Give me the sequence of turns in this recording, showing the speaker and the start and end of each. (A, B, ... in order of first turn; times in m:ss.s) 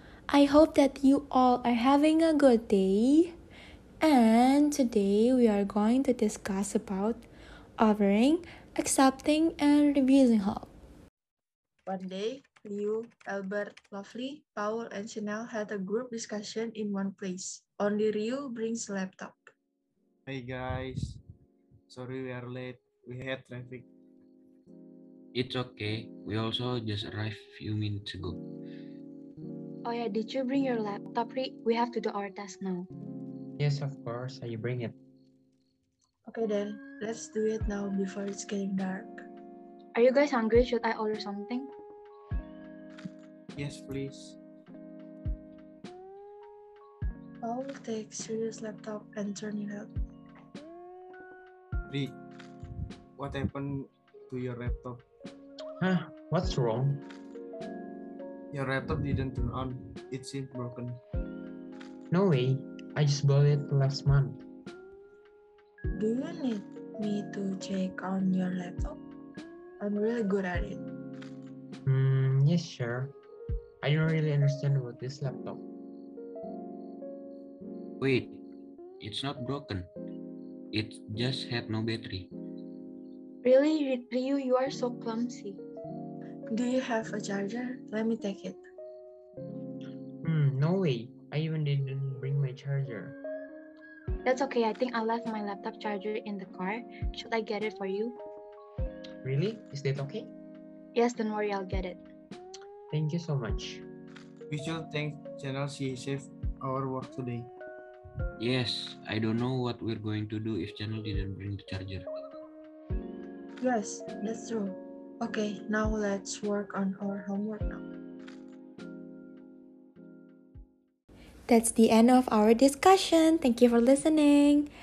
0:00.3-0:03.3 A
0:04.0-0:07.2 A
0:07.8-0:10.7 A
0:11.8-0:19.5 B
0:20.3-0:21.2 C
0:21.9-0:23.9 C
0:25.3-0:28.4 D
0:29.8-0:32.9 E
0:33.6-0:35.0 F
0:36.2-0:39.2 B
0:39.9-0:41.7 E
0:43.5-0:44.4 C
0:47.4-0:49.9 B
0:51.9-0:52.2 C
0:53.2-0:55.0 C
0:55.8-0:57.0 F
0:58.5-1:01.0 C
1:02.1-1:04.4 F
1:06.0-1:09.0 B
1:09.8-1:10.8 B
1:11.8-1:13.1 F
1:13.8-1:15.6 F
1:18.0-1:18.4 D
1:19.0-1:19.9 D
1:20.7-1:22.3 D
1:23.4-1:25.6 E
1:26.5-1:28.6 B
1:30.2-1:33.2 F
1:34.2-1:38.2 E
1:39.2-1:40.3 F
1:40.9-1:42.0 E
1:42.9-1:43.8 F
1:44.5-1:47.5 C
1:48.4-1:52.0 D
1:53.6-1:57.8 B
2:01.5-2:04.7 A